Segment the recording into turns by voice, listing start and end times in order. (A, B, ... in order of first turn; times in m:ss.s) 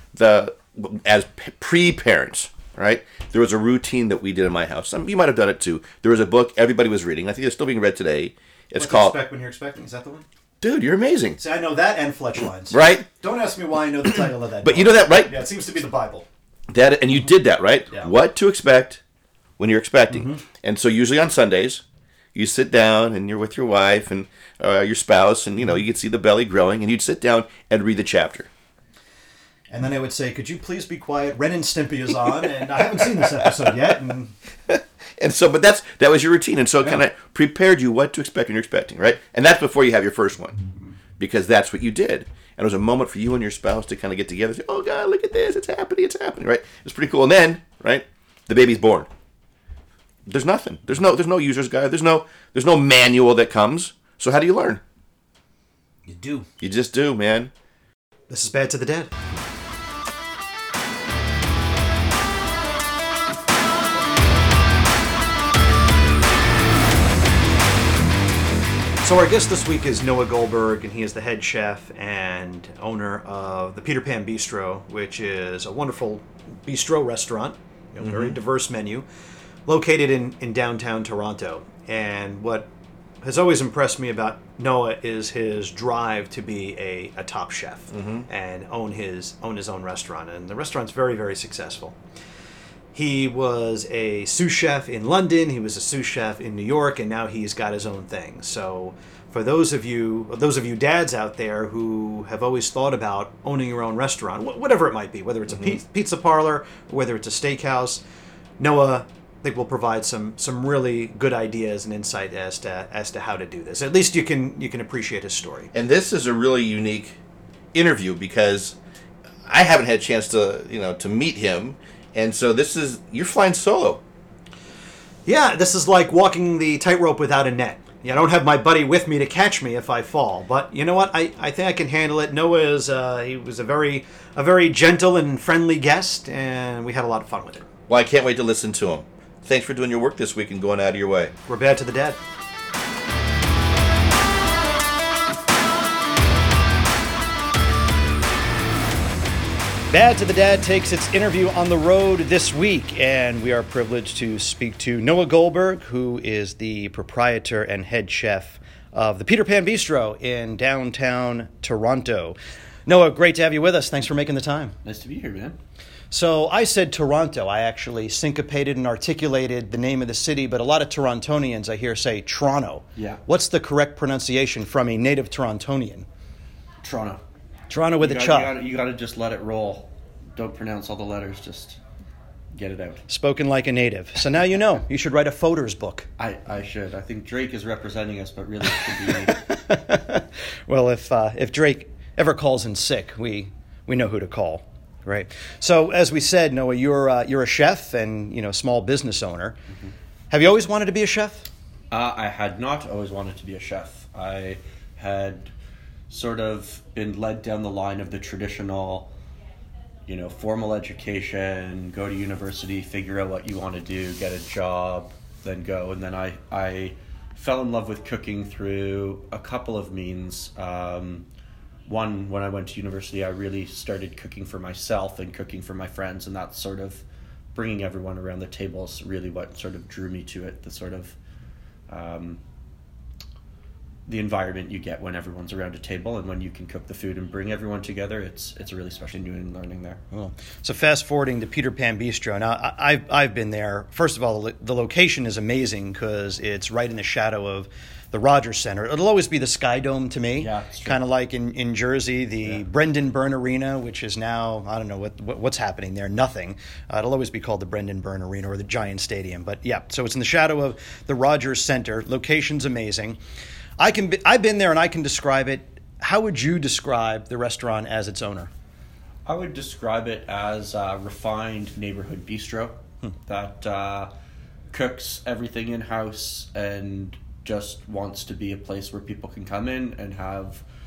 0:00.1-0:09.1 A
0:08.8-0:10.2 B
0:10.6-0:11.4 A
0:11.4-0:16.3 B
0:12.7-0:13.1 A
0:14.6-0:15.3 A
0:16.7-0:19.0 A
0:19.6-0:21.8 A
0:20.1-0:20.4 B
0:22.3-0:28.5 A
0:29.7-0:34.3 B
0:33.2-0:33.6 A
0:34.7-0:40.6 A
0:41.2-0:49.1 A
0:50.3-0:54.8 A
0:56.0-0:56.5 B
0:56.6-0:57.5 A
0:58.3-0:59.1 B
1:09.0-1:19.0 B
1:18.0-1:18.3 A
1:19.6-1:22.7 B
1:23.2-1:32.0 B
1:27.9-1:28.2 A
1:32.9-1:48.0 B
1:48.6-1:55.7 B
1:55.7-1:57.2 A
1:57.7-1:58.7 A
1:59.5-2:04.0 A
2:05.2-2:17.7 B
2:17.9-2:21.3 A
2:21.5-2:22.2 B
2:29.9-2:44.8 B
2:44.8-2:45.6 C
2:46.1-2:56.1 B
2:53.0-2:53.2 C
2:56.8-2:57.2 C
2:57.7-2:58.5 B
2:58.0-3:01.8 C
3:02.5-3:03.0 C
3:03.1-3:06.1 B
3:06.2-3:09.4 C
3:08.8-3:19.6 B
3:20.3-3:21.5 B
3:21.9-3:25.5 C
3:26.1-3:29.1 C
3:30.0-3:41.2 C
3:41.8-3:51.2 C
3:51.9-3:52.4 C
3:54.1-4:00.0 C
4:00.1-4:23.2 B
4:10.4-4:11.0 C
4:23.8-4:28.5 B
4:29.2-4:34.1 C
4:34.7-4:40.6 C